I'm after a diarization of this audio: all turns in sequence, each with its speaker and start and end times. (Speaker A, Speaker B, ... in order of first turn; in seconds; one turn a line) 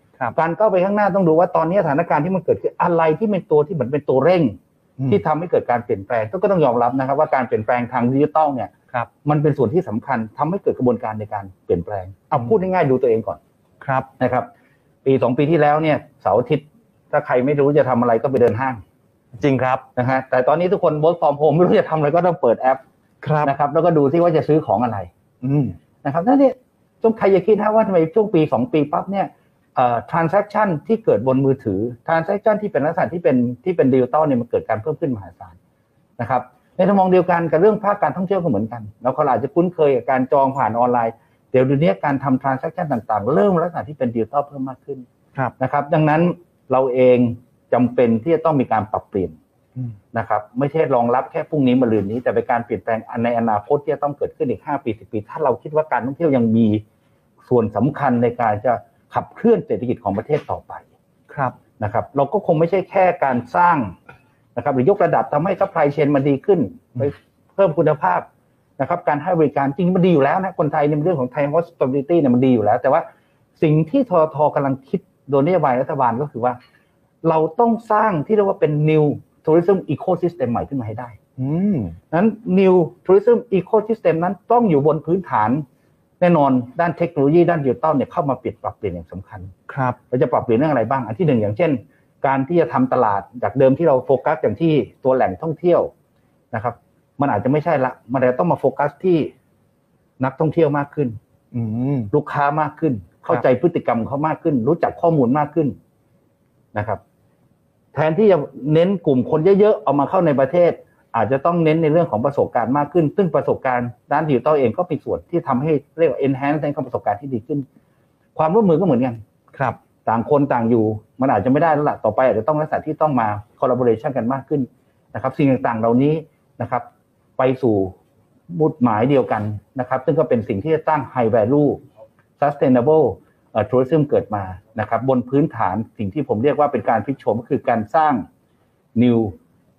Speaker A: 0.3-4.6
Speaker A: 5.1-8.7
Speaker A: 9.2-13.4
Speaker B: 13.8-14.1
Speaker A: 14.2-14.5
Speaker A: 15.0-18.8
Speaker B: 19.4-19.9
Speaker A: 19.9-22.8
Speaker B: 23.2-23.5
Speaker A: 23.4-25.1
Speaker B: 25.4-25.8
Speaker A: 26.0-35.5
Speaker A: 36.2-45.0
Speaker A: 45.6-49.4
Speaker A: 50.1-56.8
Speaker A: 57.5-60.8
Speaker B: 61.3-61.6
Speaker A: 61.8-64.0
Speaker A: 64.5-68.3
Speaker A: 68.8-73.0
Speaker A: 73.6-76.6
Speaker A: 77.2-81.2
Speaker B: 81.4-82.0
Speaker A: 82.1-85.6
Speaker A: 86.2-89.5
Speaker B: 89.7-90.0
Speaker A: 90.1-95.9
Speaker A: 96.5-99.3
Speaker A: 100.2-101.2
Speaker B: 101.5-102.1
Speaker A: 102.1-105.8
Speaker A: 106.7-107.0
Speaker A: 107.9-117.7
Speaker A: 118.3-119.2
Speaker B: 119.5-119.8
Speaker A: 120.0-126.8
Speaker A: 127.4-127.9
Speaker A: 128.5-131.8
Speaker A: 132.4-138.3
Speaker A: 138.9-139.4